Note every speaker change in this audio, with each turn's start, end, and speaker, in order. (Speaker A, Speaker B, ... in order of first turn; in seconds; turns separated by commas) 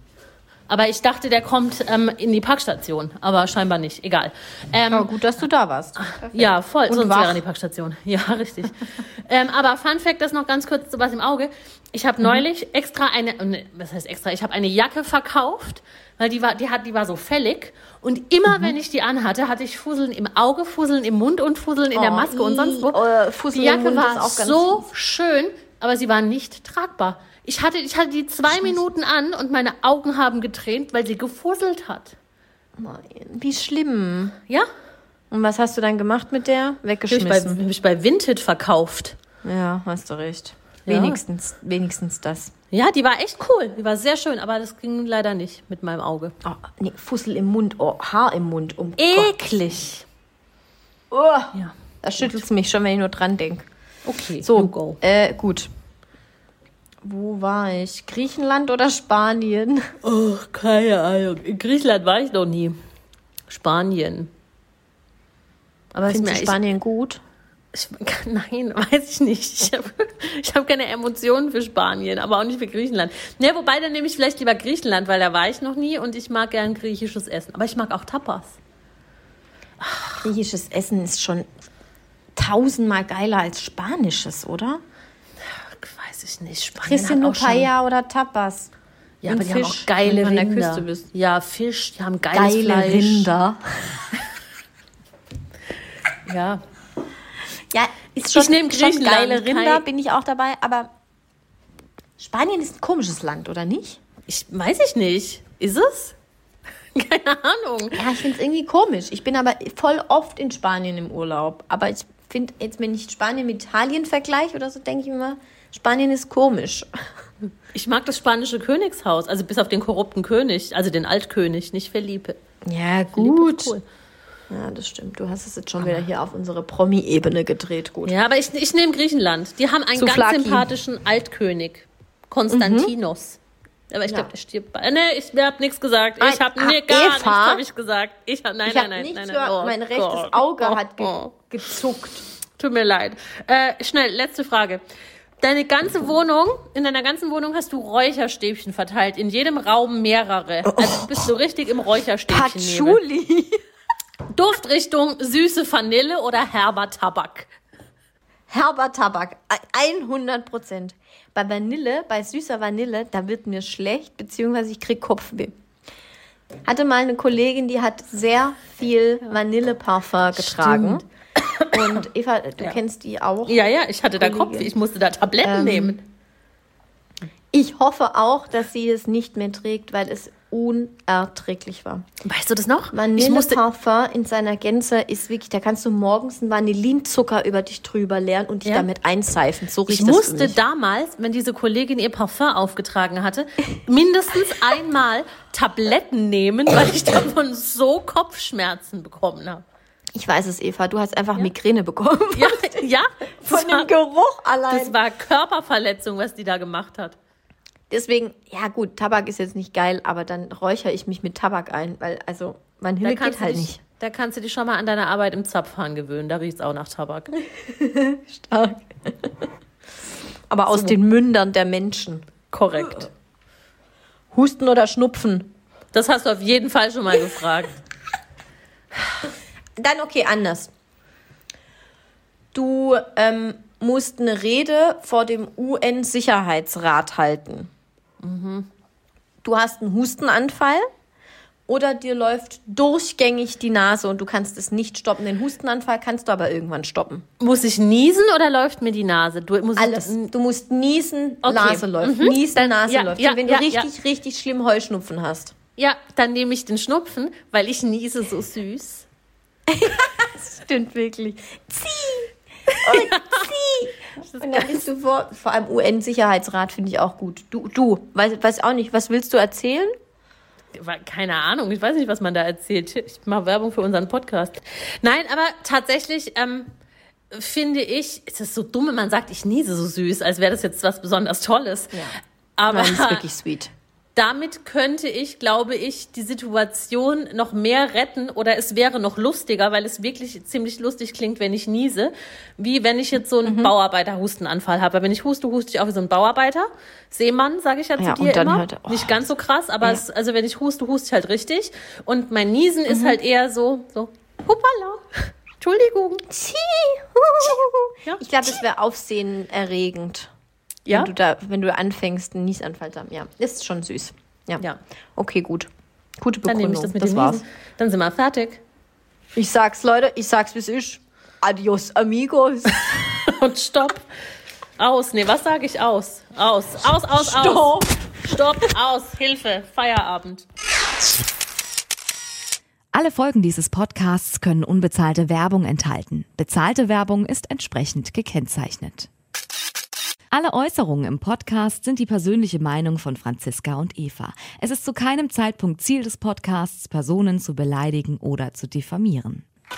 Speaker A: 0.7-5.1, Speaker B: 4.9-7.4, Speaker A: 6.0-32.2, Speaker B: 21.9-24.9, Speaker B: 28.5-28.8, Speaker B: 32.8-34.4, Speaker B: 35.3-37.6, Speaker A: 37.1-39.2, Speaker B: 39.4-42.5, Speaker A: 40.9-41.2, Speaker A: 42.7-46.4, Speaker B: 46.4-49.4, Speaker A: 49.0-50.1, Speaker B: 51.1-53.7, Speaker A: 54.0-55.0, Speaker B: 54.4-55.7, Speaker B: 57.0-59.9, Speaker A: 60.0-62.8, Speaker A: 63.5-64.3, Speaker A: 65.9-66.6, Speaker B: 66.1-67.2, Speaker A: 67.7-78.6, Speaker A: 79.8-80.2, Speaker B: 80.2-81.5, Speaker B: 82.3-84.8, Speaker A: 85.5-87.7, Speaker B: 86.8-88.7, Speaker A: 89.2-93.4, Speaker B: 89.3-91.1, Speaker B: 92.3-94.1, Speaker A: 96.3-96.6, Speaker B: 97.7-100.9, Speaker A: 98.2-99.8, Speaker B: 102.2-104.0, Speaker A: 104.3-106.2, Speaker A: 106.9-108.1, Speaker B: 108.0-116.9, Speaker A: 117.7-122.4, Speaker B: 122.7-123.8, Speaker A: 123.2-123.8, Speaker B: 124.5-128.2, Speaker A: 128.1-133.4, Speaker B: 130.0-130.7, Speaker B: 132.5-132.9, Speaker A: 133.9-141.3, Speaker B: 136.2-137.6, Speaker B: 138.7-142.2, Speaker A: 142.6-144.8, Speaker A: 145.4-153.0, Speaker B: 150.7-151.3, Speaker B: 152.3-153.6, Speaker A: 154.3-157.5, Speaker B: 158.5-165.6, Speaker B: 166.7-171.1, Speaker A: 170.3-172.0, Speaker B: 171.7-174.7, Speaker A: 173.5-176.0, Speaker B: 175.4-176.0, Speaker B: 177.5-182.1, Speaker A: 182.2-183.6, Speaker B: 182.9-190.6, Speaker A: 189.9-199.6, Speaker B: 200.1-202.9, Speaker A: 202.3-203.9, Speaker B: 203.4-205.0, Speaker A: 204.7-207.2, Speaker B: 207.9-213.8, Speaker A: 213.0-217.3, Speaker B: 217.6-219.5, Speaker B: 220.5-222.3, Speaker A: 220.7-221.0, Speaker A: 222.5-223.1, Speaker B: 222.8-223.1, Speaker B: 224.3-225.5, Speaker A: 225.9-227.8, Speaker B: 229.8-230.7, Speaker B: 232.5-237.7, Speaker A: 238.2-238.7, Speaker B: 239.4-240.9, Speaker B: 241.7-247.3, Speaker A: 247.4-250.3, Speaker B: 249.8-255.6, Speaker A: 251.4-253.9, Speaker A: 255.8-259.1, Speaker B: 259.7-269.9, Speaker A: 262.7-263.5, Speaker A: 264.3-264.8, Speaker A: 270.7-276.7, Speaker A: 277.3-282.0, Speaker B: 281.9-283.7, Speaker A: 282.6-283.2, Speaker A: 284.1-306.3, Speaker B: 293.4-293.7, Speaker B: 298.0-299.1, Speaker B: 302.9-303.2, Speaker B: 306.3-310.3, Speaker A: 310.9-311.1, Speaker B: 310.9-314.6, Speaker B: 315.2-317.4, Speaker A: 316.5-318.6, Speaker B: 319.4-323.3, Speaker A: 322.9-324.1, Speaker A: 324.8-330.5, Speaker B: 327.1-327.9, Speaker C: 332.9-339.1, Speaker C: 340.3-349.5